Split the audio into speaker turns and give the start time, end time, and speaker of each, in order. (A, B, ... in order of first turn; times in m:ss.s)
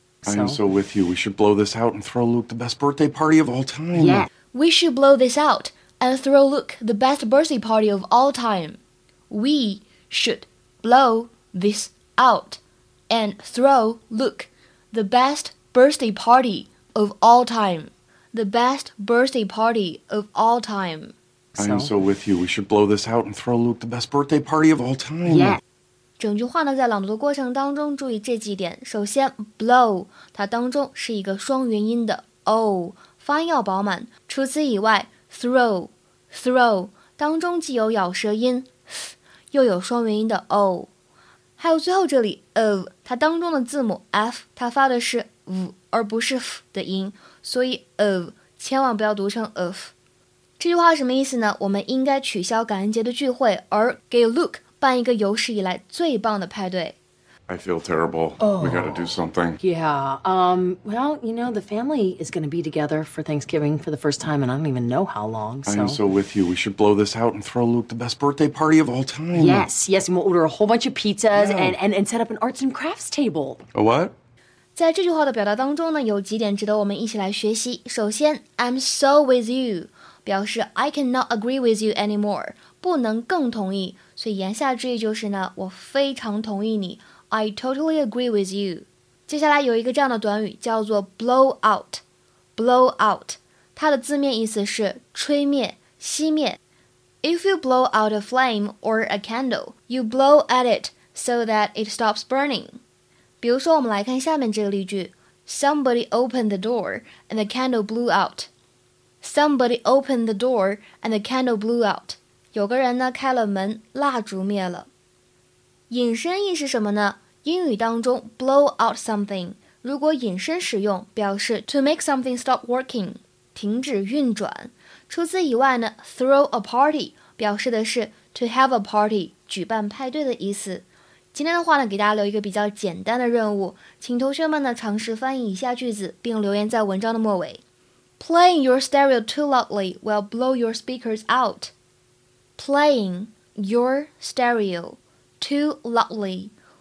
0:00.2-0:00.6 A
0:00.3-0:04.3 B
0:04.0-0:04.3 A
0:04.5-0:08.8 C
0:09.3-0:21.2 C
0:21.6-0:21.9 A
0:21.6-0:25.6 B
0:25.3-0:25.6 A
0:26.2-0:40.9 C
0:41.6-0:49.9 C
0:50.6-0:57.0 C
0:57.5-0:59.6 B
0:58.4-0:59.1 A
0:59.6-1:06.0 A
1:05.7-1:09.7 B
1:09.3-1:13.6 A
1:11.3-1:11.8 B
1:13.7-1:14.1 B
1:14.8-1:32.0 C
1:32.6-1:36.6 C
1:37.2-1:42.8 C
1:43.4-1:48.5 C
1:49.2-1:54.9 C
1:55.9-2:17.6 C
2:18.2-2:21.7 C
2:22.6-2:26.5 C